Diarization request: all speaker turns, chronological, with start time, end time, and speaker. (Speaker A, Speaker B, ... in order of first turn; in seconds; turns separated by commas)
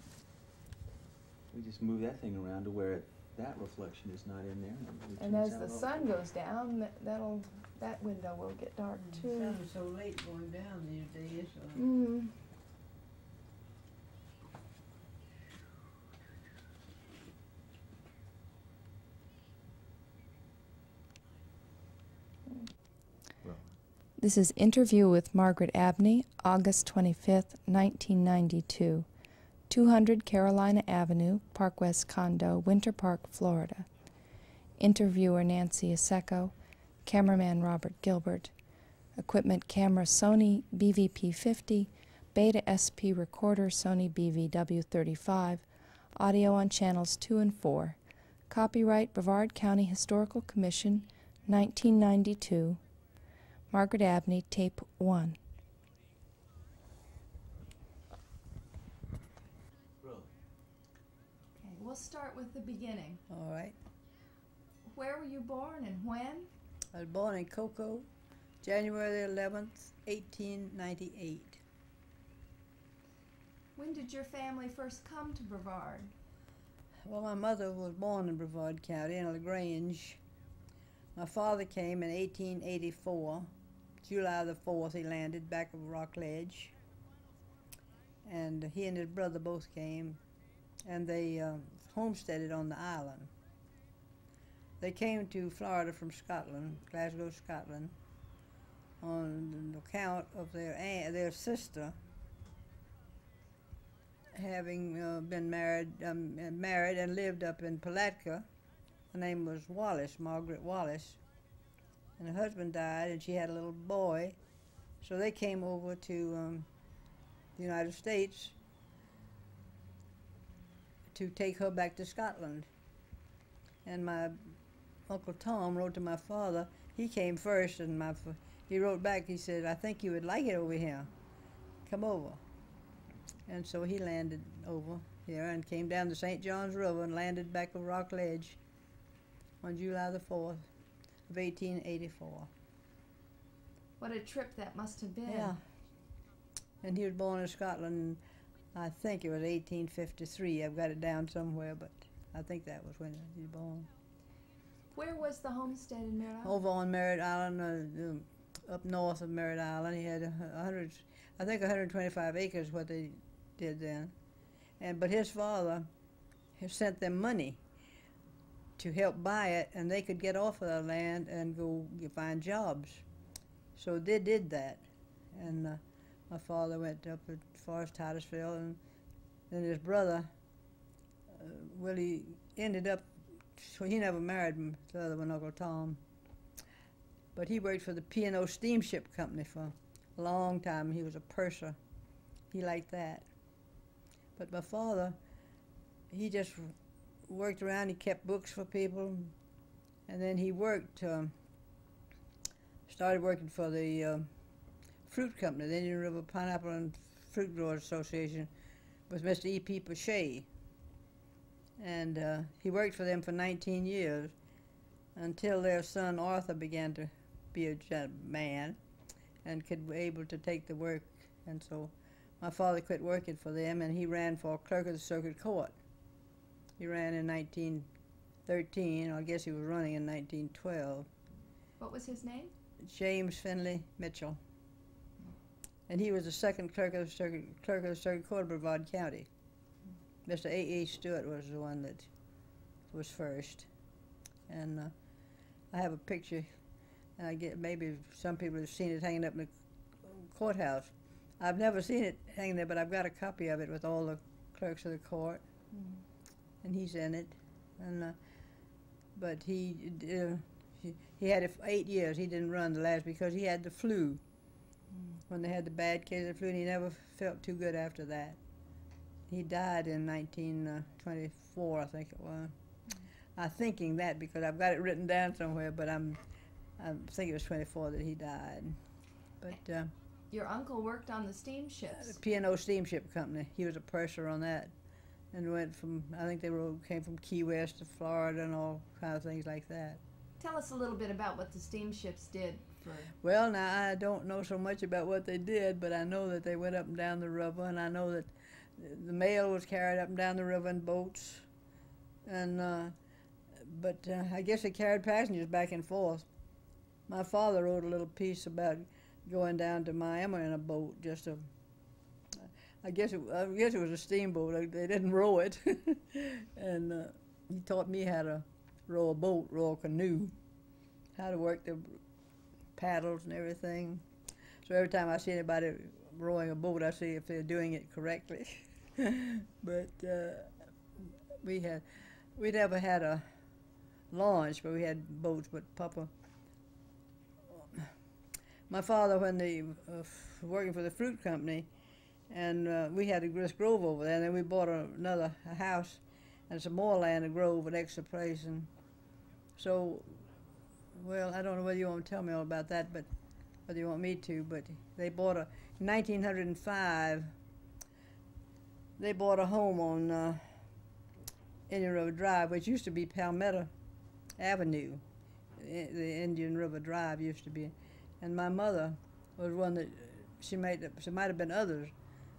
Speaker A: 1.5-6.0, Speaker B: 5.2-9.6, Speaker C: 9.0-11.8, Speaker B: 11.8-12.3, Speaker A: 23.4-23.7, Speaker B: 24.2-29.1, Speaker B: 29.7-33.9, Speaker B: 34.8-38.5, Speaker B: 39.1-48.0, Speaker B: 48.5-52.8, Speaker B: 53.7-55.4, Speaker A: 60.0-60.3, Speaker B: 61.5-63.2, Speaker C: 63.3-63.8, Speaker B: 64.8-66.5, Speaker C: 66.9-68.1, Speaker C: 68.6-71.6, Speaker B: 73.8-76.1, Speaker C: 77.0-80.2, Speaker C: 81.1-83.5, Speaker C: 84.0-86.7, Speaker C: 88.2-90.2, Speaker C: 90.8-93.3, Speaker C: 94.8-97.9, Speaker C: 99.0-102.0, Speaker C: 104.3-108.5, Speaker C: 109.1-111.2, Speaker C: 112.2-114.4, Speaker C: 115.0-116.7, Speaker C: 117.5-118.5, Speaker C: 121.1-122.7, Speaker C: 123.8-131.1, Speaker C: 131.8-132.4, Speaker C: 133.5-138.6, Speaker C: 139.6-140.6, Speaker C: 141.3-142.5, Speaker B: 144.0-145.5, Speaker C: 145.2-145.6, Speaker C: 146.8-148.2, Speaker C: 148.7-153.9, Speaker B: 154.9-156.6, Speaker C: 156.4-164.1, Speaker C: 164.8-165.9, Speaker C: 166.6-167.6, Speaker C: 168.8-173.0, Speaker C: 173.8-178.8, Speaker C: 179.5-180.3, Speaker C: 181.3-186.0, Speaker C: 187.3-191.8, Speaker C: 192.5-193.3, Speaker C: 194.4-195.2, Speaker C: 196.1-199.3, Speaker C: 200.1-201.3, Speaker C: 202.9-204.3, Speaker C: 205.1-208.5, Speaker C: 209.1-210.5, Speaker C: 211.8-214.3, Speaker C: 215.1-218.8, Speaker C: 219.4-225.7, Speaker C: 226.8-227.9, Speaker C: 228.4-231.1, Speaker B: 231.8-232.5, Speaker C: 232.8-234.4, Speaker C: 235.9-239.3, Speaker C: 240.2-242.1, Speaker C: 242.9-243.7, Speaker C: 244.5-244.9, Speaker C: 245.7-246.5, Speaker C: 247.2-255.4, Speaker C: 256.6-258.2, Speaker C: 259.1-264.2, Speaker C: 265.3-268.4, Speaker C: 269.3-272.5, Speaker C: 273.4-276.2, Speaker C: 276.8-278.8, Speaker C: 279.4-279.9, Speaker B: 280.3-282.2, Speaker C: 282.0-284.7, Speaker C: 285.3-290.0, Speaker B: 290.4-293.1, Speaker C: 293.2-301.5, Speaker C: 302.2-302.9, Speaker C: 303.5-306.2, Speaker C: 307.1-311.5, Speaker C: 312.3-320.3, Speaker C: 321.1-322.0, Speaker C: 322.8-324.0, Speaker C: 324.6-331.8, Speaker C: 332.4-333.2, Speaker C: 334.1-336.1, Speaker C: 337.5-337.9, Speaker C: 338.7-341.7, Speaker C: 342.3-348.7, Speaker C: 349.6-350.2, Speaker C: 350.9-353.1, Speaker C: 353.7-357.3, Speaker C: 359.0-360.6, Speaker C: 361.7-363.7, Speaker C: 364.4-365.0, Speaker C: 365.6-371.9